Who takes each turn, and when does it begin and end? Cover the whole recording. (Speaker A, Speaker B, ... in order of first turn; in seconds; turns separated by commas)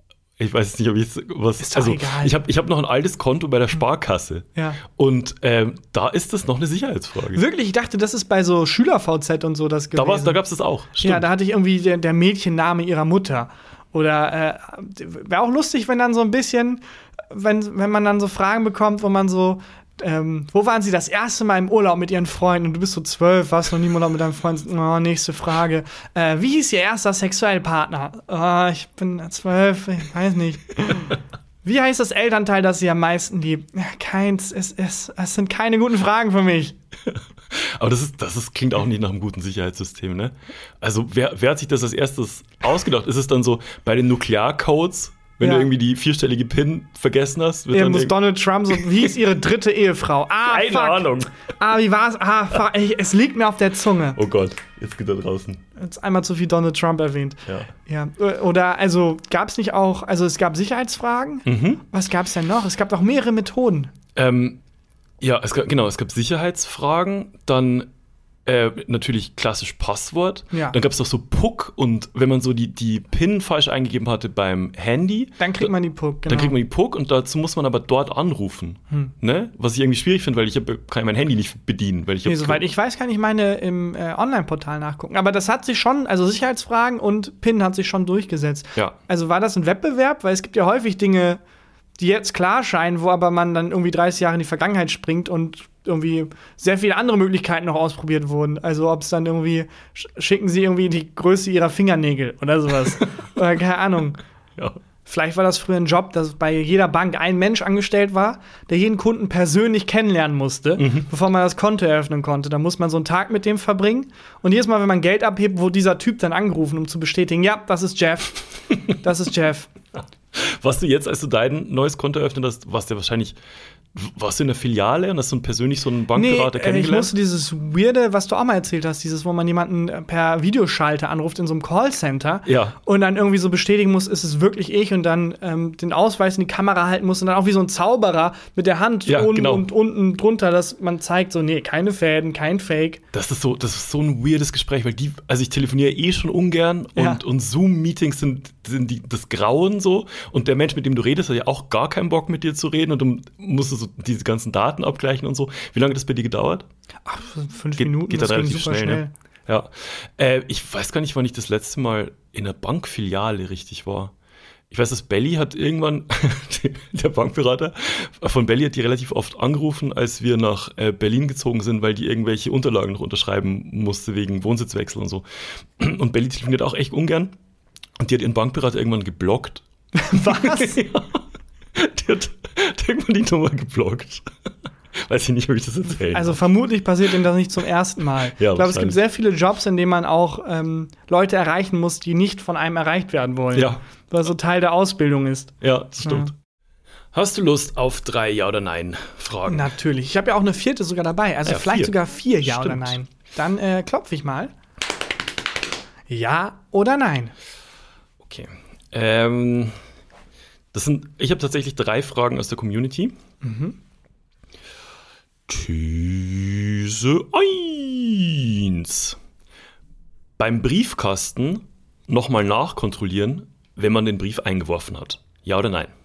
Speaker A: 0.4-7.4, Speaker B: 1.6-2.4, Speaker B: 4.6-4.8, Speaker B: 7.3-10.4, Speaker A: 9.9-11.3, Speaker B: 11.0-36.8, Speaker A: 37.1-49.1, Speaker B: 45.4-45.7, Speaker B: 47.7-54.2, Speaker A: 50.4-51.3, Speaker A: 54.2-55.6, Speaker B: 55.8-63.9, Speaker A: 61.5-61.8, Speaker A: 64.2-64.6, Speaker A: 65.2-67.9, Speaker A: 68.5-75.7, Speaker B: 70.5-70.8, Speaker B: 75.4-76.6, Speaker A: 76.3-82.6, Speaker B: 82.2-91.4, Speaker B: 92.0-104.2, Speaker B: 105.1-119.7, Speaker A: 110.8-111.1, Speaker A: 120.3-123.4, Speaker A: 123.9-127.1, Speaker B: 126.1-143.0, Speaker A: 132.5-132.8, Speaker A: 139.1-139.7, Speaker A: 143.1-156.7, Speaker B: 147.0-147.2, Speaker B: 157.1-159.1, Speaker A: 157.8-164.1, Speaker A: 164.7-175.2, Speaker A: 175.8-177.4, Speaker A: 178.0-181.2, Speaker B: 180.0-180.8, Speaker A: 181.8-184.3, Speaker A: 184.9-186.4, Speaker B: 186.1-196.3, Speaker A: 188.4-189.0, Speaker A: 193.5-193.8, Speaker A: 195.6-196.3, Speaker A: 197.1-199.7, Speaker B: 199.5-204.5, Speaker A: 201.5-203.0, Speaker B: 206.1-207.3, Speaker A: 208.2-209.7, Speaker A: 210.7-213.2, Speaker B: 213.4-213.8, Speaker A: 215.5-219.2, Speaker A: 220.4-225.9